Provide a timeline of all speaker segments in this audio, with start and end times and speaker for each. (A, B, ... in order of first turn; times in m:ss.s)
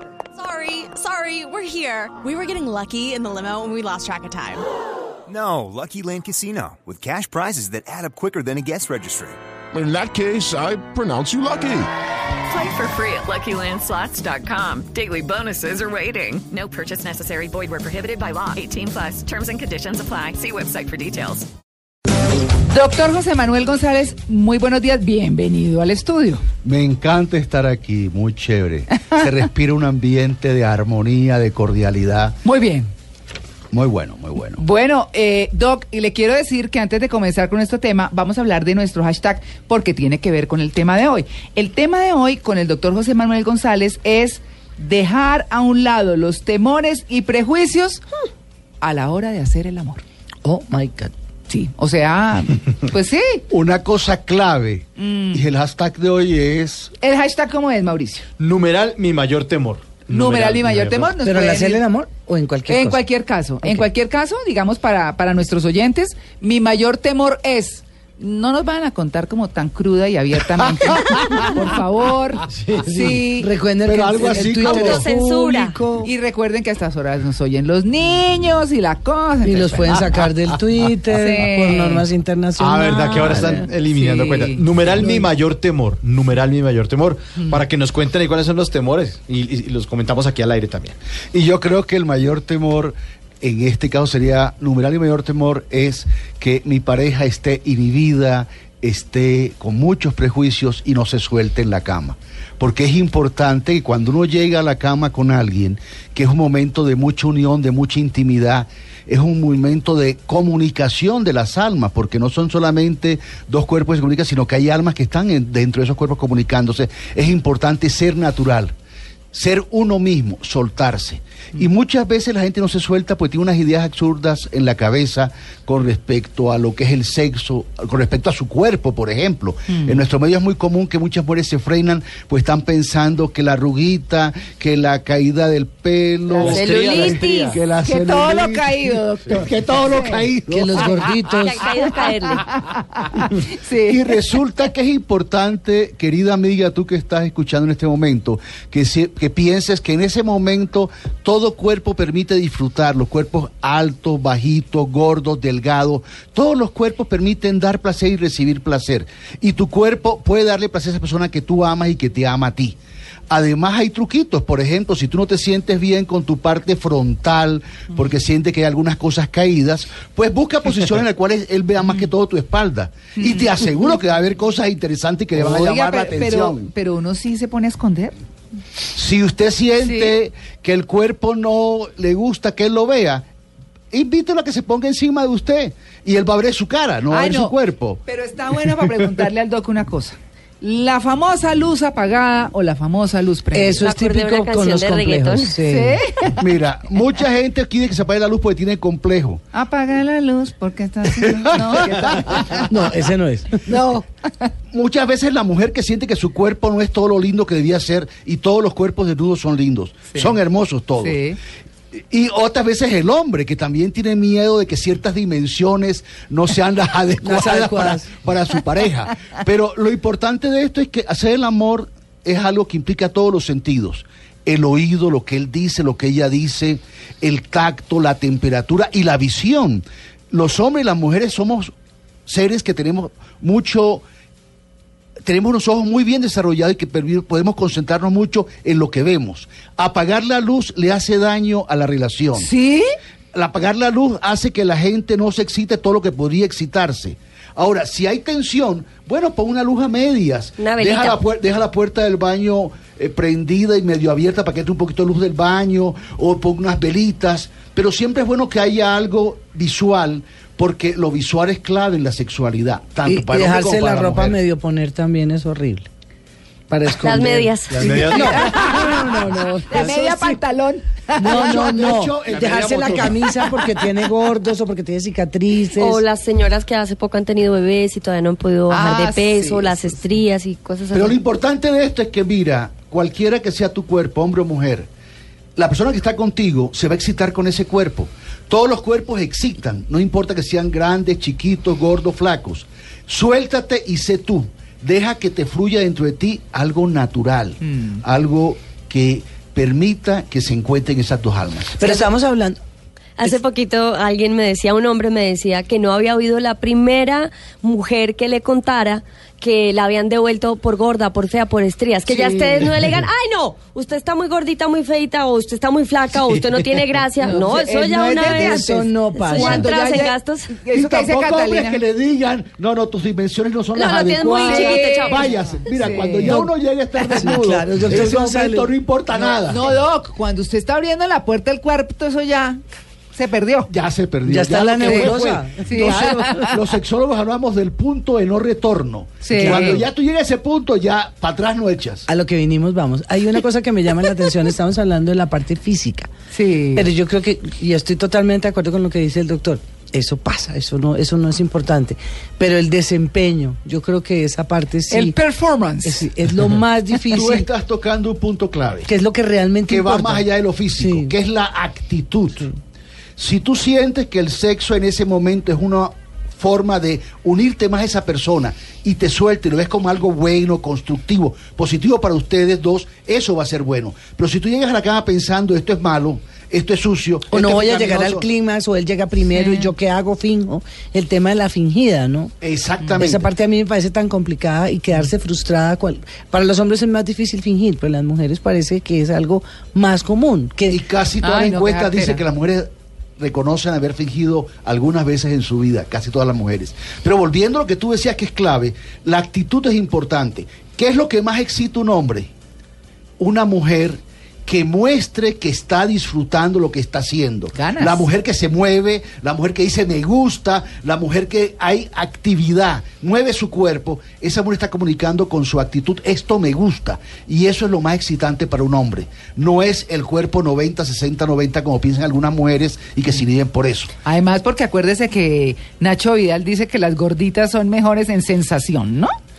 0:00.4-0:04.6 A
0:05.3-0:09.4 B
0:09.7-0:11.9 C
0:12.5-0:21.5 D
0:22.7-0:26.4 E
0:26.6-0:32.4 F
0:32.4-0:32.9 E
0:33.7-0:34.6 F
0:34.6-0:48.0 E
0:48.8-0:50.0 E
0:50.4-0:51.1 G
0:51.5-0:53.4 E
0:53.5-0:56.9 F
0:55.0-0:55.5 E
0:57.0-0:58.3 E
0:58.4-1:01.1 H
1:00.1-1:01.9 E
1:01.2-1:03.0 G
1:02.7-1:13.5 E
1:03.6-1:03.9 G
1:12.5-1:13.0 H
1:12.8-1:16.1 G
1:13.8-1:15.1 F
1:14.6-1:15.8 I
1:16.0-1:20.2 E
1:19.4-1:23.7 G
1:21.1-1:22.1 E
1:22.6-1:31.0 H
1:23.9-1:25.0 E
1:25.0-1:25.3 G
1:31.3-1:58.8 F
1:59.3-2:20.9 F
2:09.7-2:10.0 E
2:16.4-2:17.6 H
2:16.4-2:17.6 I
2:17.8-2:20.3 E
2:20.5-2:21.6 G
2:21.3-2:22.4 I
2:22.3-2:24.2 E
2:23.9-2:42.8 F
2:43.3-2:56.7 F
2:51.8-2:52.1 E
2:53.2-2:53.6 E
2:55.4-2:58.2 E
2:58.9-3:03.3 F
2:59.8-3:00.2 E
3:03.9-3:08.0 F
3:07.1-3:13.8 E
3:13.5-3:16.0 G
3:13.8-3:15.5 I
3:15.7-3:16.4 E
3:16.4-3:19.4 F
3:19.5-3:22.7 E
3:21.5-3:22.2 F
3:22.7-3:24.0 G
3:24.7-3:31.2 F
3:31.0-3:31.4 E
3:32.1-3:51.7 F
3:37.2-3:38.1 G
3:52.3-3:54.0 F
3:55.2-4:02.5 F
4:02.4-4:02.9 E
4:03.3-4:24.4 F
4:10.6-4:11.2 I
4:23.0-4:25.9 G
4:26.7-4:30.4 G
4:27.0-4:27.9 I
4:27.8-4:28.5 H
4:28.1-4:29.0 E
4:29.7-4:31.9 E
4:31.2-4:36.0 G
4:31.2-4:33.3 F
4:32.4-4:33.1 H
4:35.8-4:41.2 I
4:38.7-4:39.9 E
4:40.9-4:44.9 F
4:45.6-5:01.8 F
4:57.6-4:58.0 E
5:01.8-5:02.6 G
5:03.2-5:18.6 I
5:12.1-5:12.8 G
5:17.2-5:21.8 E
5:18.2-5:19.7 G
5:19.1-5:20.5 I
5:20.7-5:29.7 F
5:23.8-5:25.3 I
5:24.4-5:26.4 E
5:26.2-5:26.5 G
5:27.0-5:27.3 E
5:27.1-5:28.7 G
5:29.1-5:32.6 E
5:33.1-5:33.7 E
5:33.7-5:42.1 F
5:34.3-5:36.4 G
5:34.8-5:36.5 E
5:39.2-5:39.9 E
5:39.3-5:39.8 G
5:42.1-5:46.1 G
5:46.3-5:46.9 E
5:46.8-5:55.2 G
5:54.9-5:56.1 E
5:55.8-5:57.5 G
5:57.1-5:58.9 F
5:58.8-6:01.1 G
5:59.7-6:02.5 F
6:03.2-6:18.3 F
6:17.3-6:22.3 G
6:19.4-6:19.7 E
6:22.4-6:23.3 F
6:23.0-6:30.8 G
6:30.7-6:42.3 F
6:31.2-6:32.2 E
6:43.2-7:03.9 F
6:47.6-6:48.1 E
7:04.0-7:09.1 E